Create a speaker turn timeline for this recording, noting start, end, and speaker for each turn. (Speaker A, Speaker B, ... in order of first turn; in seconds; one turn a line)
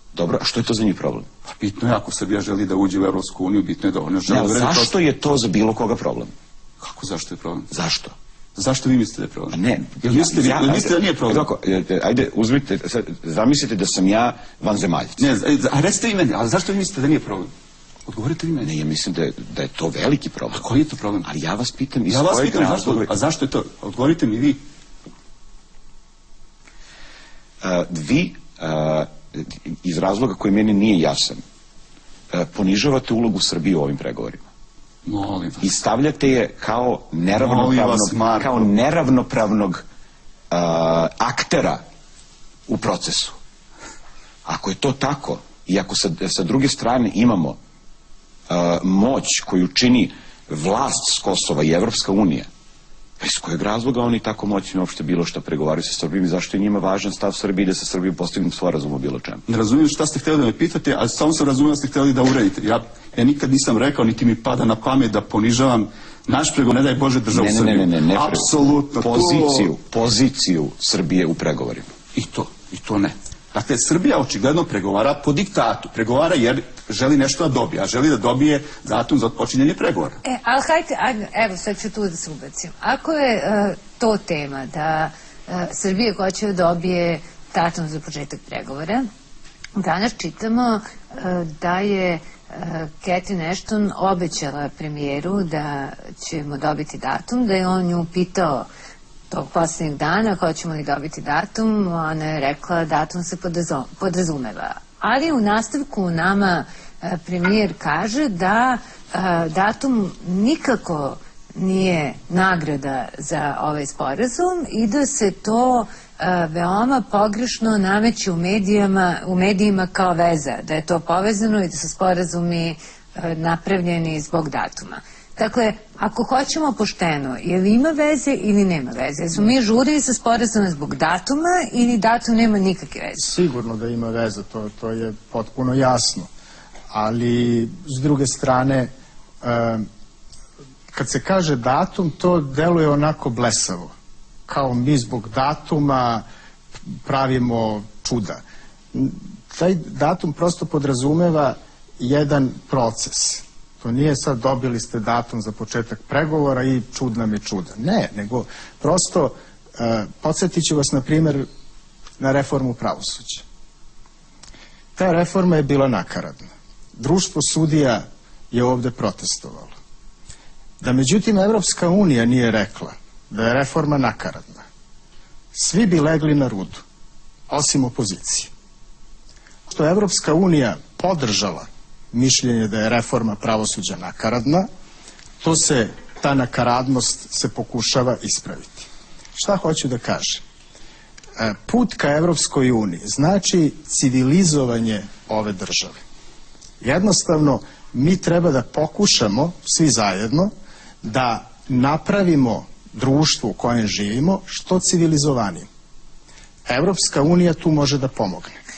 Speaker A: 0.1-1.3
Speaker B: 1.5-4.9
Speaker A: 4.3-6.3
Speaker B: 6.8-7.7
Speaker A: 7.7-8.1
Speaker B: 8.6-11.5
Speaker A: 9.5-15.2
Speaker B: 15.2-17.5
Speaker B: 18.1-18.7
Speaker A: 18.6-20.6
Speaker B: 20.5-21.3
Speaker A: 21.2-23.1
Speaker B: 22.1-24.6
Speaker A: 27.6-31.4
Speaker A: 32.3-34.4
Speaker B: 35.0-35.8
Speaker A: 35.6-39.8
Speaker B: 37.3-38.7
Speaker A: 40.5-41.8
Speaker A: 42.7-43.4
Speaker A: 44.4-47.6
Speaker A: 48.5-52.5
Speaker A: 53.2-59.4
Speaker B: 59.5-69.7
Speaker A: 67.3-71.9
Speaker B: 72.1-80.2
Speaker C: 80.2-89.1
Speaker C: 89.8-98.7
Speaker C: 99.3-133.3
Speaker D: 133.2-136.3
Speaker D: 136.9-138.9
Speaker D: 139.4-139.9
Speaker D: 140.9-143.9
Speaker D: 144.5-146.2
Speaker D: 146.9-148.4
Speaker D: 148.9-161.5
Speaker D: 162.2-163.4
Speaker D: 164.9-169.7
Speaker D: 170.8-174.6
Speaker D: 175.5-176.8
Speaker D: 177.5-178.5
Speaker D: 179.7-184.7
Speaker D: 185.4-190.4
Speaker D: 191.4-196.0
Speaker D: 196.8-200.5
Speaker D: 201.0-205.7
Speaker D: 206.7-208.5